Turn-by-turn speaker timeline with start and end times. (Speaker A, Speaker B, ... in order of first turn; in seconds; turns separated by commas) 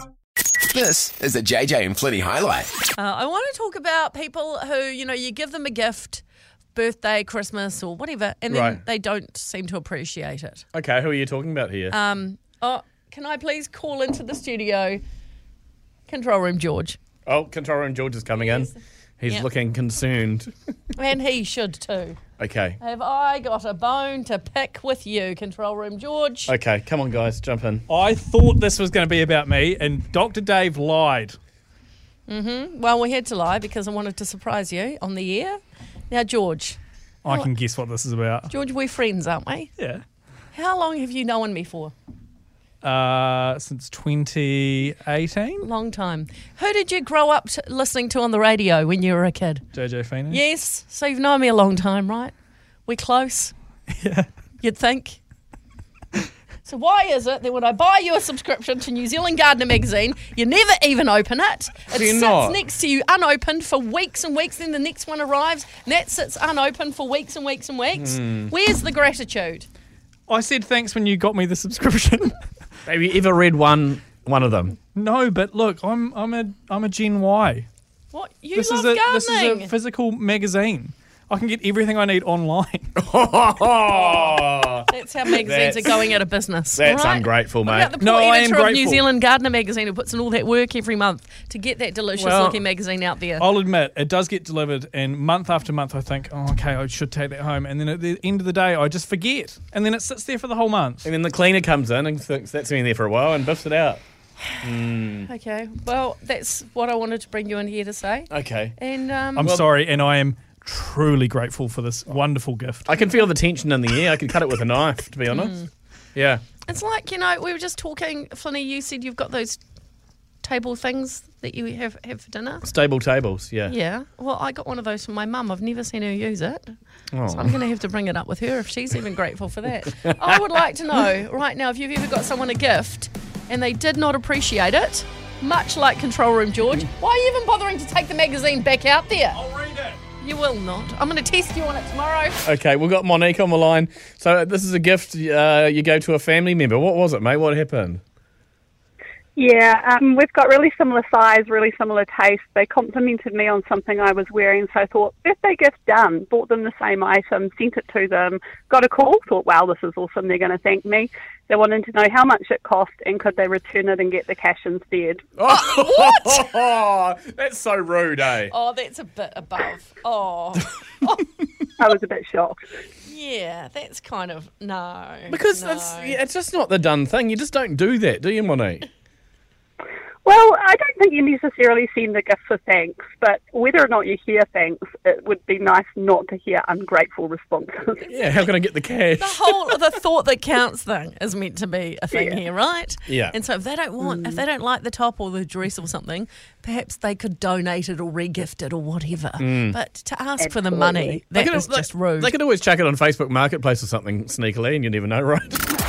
Speaker A: 0.7-2.7, Speaker B: 3.0-6.2, Speaker B: 6.7-10.6, Speaker C: 8.5-8.8, Speaker C: 10.7-11.9, Speaker B: 11.9-15.0, Speaker B: 16.1-17.0, Speaker C: 17.2-20.5, Speaker B: 18.4-18.7, Speaker B: 20.9-22.2, Speaker C: 22.4-22.8, Speaker B: 22.8-26.5, Speaker C: 26.5-27.8, Speaker D: 27.9-31.4, Speaker B: 32.3-35.6, Speaker B: 36.1-37.5, Speaker D: 37.2-38.5, Speaker B: 38.5-39.7, Speaker D: 39.8-40.0, Speaker B: 40.5-41.9, Speaker D: 42.8-45.6, Speaker B: 45.6-49.6, Speaker D: 49.7-50.4, Speaker B: 50.3-52.3, Speaker B: 52.9-53.5, Speaker D: 53.9-54.3, Speaker B: 54.6-55.2, Speaker B: 56.6-69.7, Speaker C: 61.9-62.6, Speaker C: 68.0-68.5, Speaker D: 70.3-72.4, Speaker C: 72.8-74.8, Speaker D: 74.9-77.7, Speaker B: 78.1-79.7, Speaker D: 78.5-82.9, Speaker C: 83.0-86.1, Speaker B: 84.9-93.5, Speaker C: 86.8-87.9, Speaker D: 88.0-89.1, Speaker C: 92.2-92.6, Speaker D: 93.4-101.1, Speaker C: 101.0-104.0, Speaker C: 104.6-105.3, Speaker B: 105.2-109.5, Speaker C: 108.3-108.7, Speaker D: 109.4-112.8, Speaker C: 112.8-115.5, Speaker B: 115.3-115.7, Speaker C: 116.1-116.4, Speaker B: 116.7-119.6, Speaker B: 120.4-122.7, Speaker C: 122.6-123.7, Speaker B: 123.7-126.8, Speaker C: 127.1-127.5, Speaker B: 127.3-139.4, Speaker D: 139.3-140.0, Speaker B: 140.2-142.5, Speaker C: 142.4-148.0, Speaker E: 149.3-165.2, Speaker C: 165.4-168.5, Speaker B: 165.6-166.1, Speaker B: 168.5-171.2, Speaker E: 171.8-172.6, Speaker B: 173.0-176.2, Speaker C: 175.3-178.9, Speaker E: 180.2-188.1, Speaker C: 188.1-189.7, Speaker B: 189.2-202.3, Speaker C: 193.1-193.3, Speaker E: 194.0-194.3, Speaker C: 199.4-199.8, Speaker E: 200.4-201.2, Speaker C: 201.3-205.6